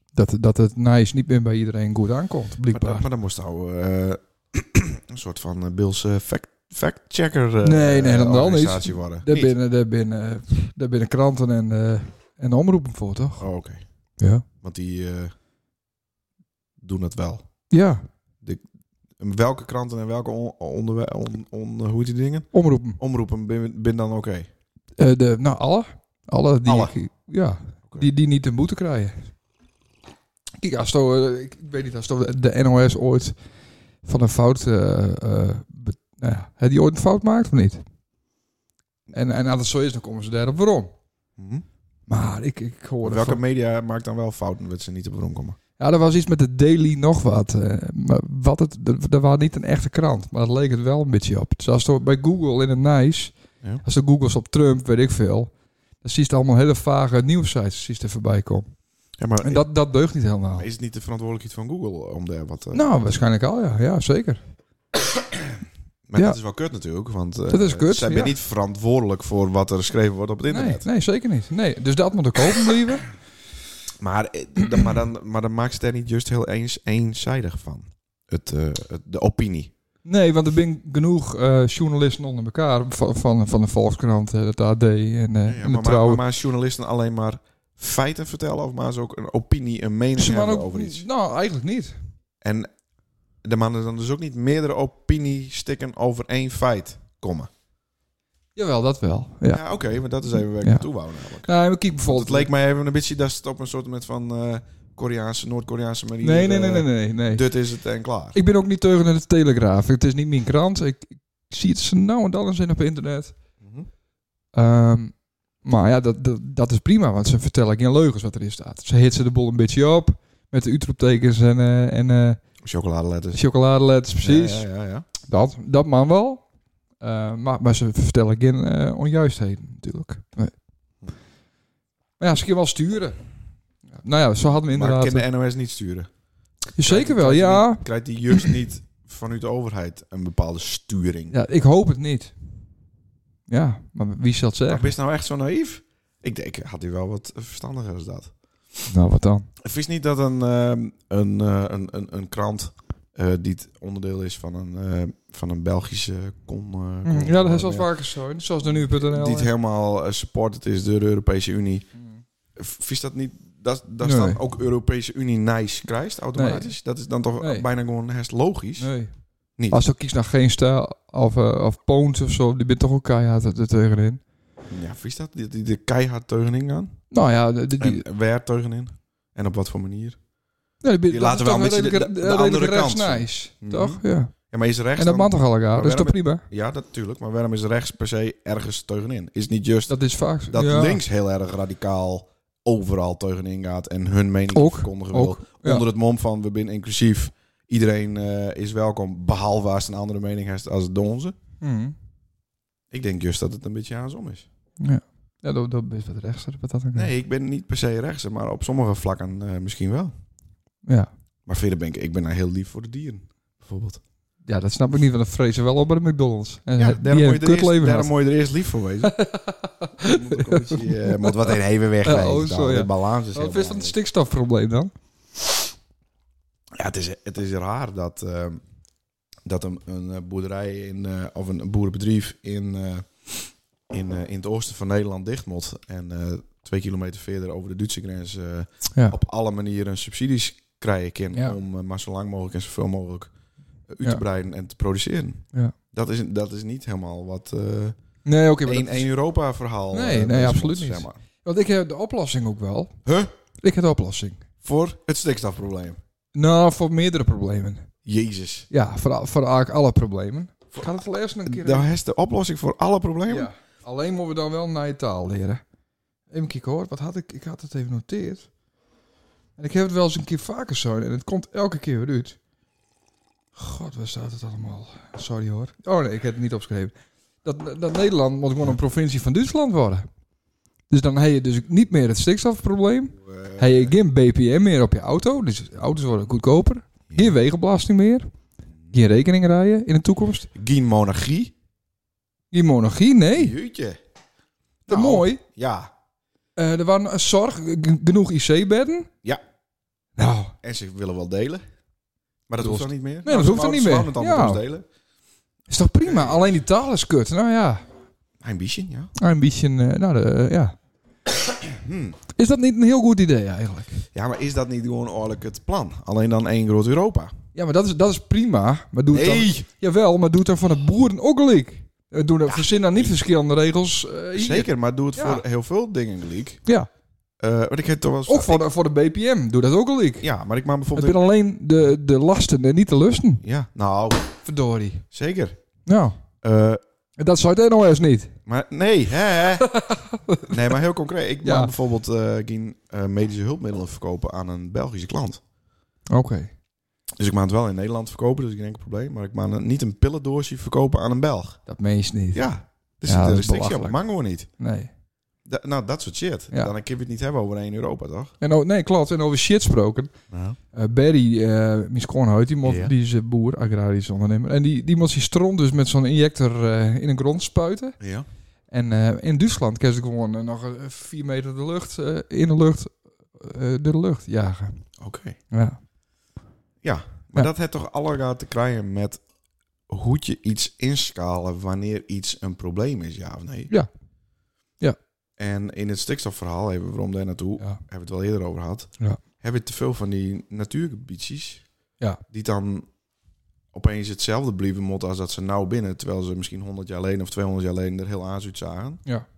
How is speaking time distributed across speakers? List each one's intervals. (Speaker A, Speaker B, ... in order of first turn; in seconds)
Speaker A: 0.1-3.0, 7.6-13.5, 14.2-14.4, 17.7-18.0, 22.5-23.0, 25.0-29.3, 30.6-33.4, 34.0-37.8, 39.1-40.9, 42.1-43.4, 45.8-58.7, 59.4-60.7, 62.7-64.4, 67.5-68.3, 70.5-73.1, 80.0-86.2, 90.2-92.0, 98.5-99.6, 100.6-102.5, 106.2-107.5, 108.3-113.3, 114.5-122.4, 123.3-124.7, 125.2-126.4, 127.0-130.5, 132.2-133.2, 133.9-135.3, 136.8-137.8, 141.3-142.3, 143.5-144.9, 148.9-149.5, 157.0-159.5, 162.0-162.2, 164.0-164.4, 166.3-166.7, 167.4-167.7, 168.8-169.1, 169.7-174.2, 177.1-178.0, 180.8-184.3, 185.0-186.4, 189.9-191.0, 194.5-195.8, 201.6-201.9, 204.8-207.1, 214.5-218.1, 219.0-224.9, 248.2-249.1, 249.9-252.9, 253.6-254.4, 256.3-257.9, 258.7-261.9, 263.3-265.6, 266.3-268.5, 269.6-272.4, 273.6-280.1, 280.9-288.3, 288.9-290.5, 292.5-293.6, 294.9-295.4, 296.6-299.1, 300.2-300.5, 302.6-304.6, 305.7-307.8, 309.1-310.7, 312.4-314.0, 317.5-325.4, 328.2-330.2, 330.9-333.4, 334.4-335.0, 335.9-336.2, 337.2-338.3, 339.7-340.5, 341.4-341.7, 346.1-346.5, 351.7-352.4, 353.0-354.0, 354.6-354.9, 358.4-360.1, 360.7-368.0, 368.7-374.9, 375.5-375.8
Speaker B: 2.7-9.5, 13.4-13.8, 14.6-15.3, 16.8-17.5, 19.2-24.5, 26.6-26.9, 41.4-41.6, 43.0-45.6, 59.2-59.6, 60.6-62.9, 66.1-70.8, 74.0-79.7, 85.5-91.0, 92.4-92.7, 93.4-97.5, 99.5-101.5, 102.0-108.4, 113.6-113.9, 122.6-123.4, 124.2-125.0, 134.7-136.1, 136.8-141.3, 144.7-148.3, 149.6-157.9, 158.7-161.9, 162.6-168.9, 169.6-169.8, 174.7-177.0, 177.8-180.2, 181.1-201.3, 202.9-204.4, 206.9-210.1, 211.4-214.0, 216.8-219.1, 220.0-223.9, 226.7-228.6, 229.4-243.3, 243.9-248.0, 248.6-251.2, 253.0-253.3, 254.6-256.0, 258.0-258.7, 261.4-263.5, 283.1-283.9, 290.5-291.5, 293.3-294.0, 294.9-295.9, 300.6-301.6, 302.5-304.9, 306.0-306.6, 308.4-309.1, 311.7-312.2, 314.1-317.3, 319.1-319.6, 322.4-323.1, 324.3-326.6, 327.4-328.6, 330.2-331.2, 333.4-334.3, 335.1-335.6, 336.4-336.8, 338.4-339.7, 340.5-345.4, 347.2-351.6, 352.3-354.5, 355.4-358.3, 360.3-360.6, 362.6-362.9, 368.0-368.3, 375.0-375.4, 376.8-379.2, 379.9-383.7, 385.4-391.6, 392.3-392.9, 393.7-399.0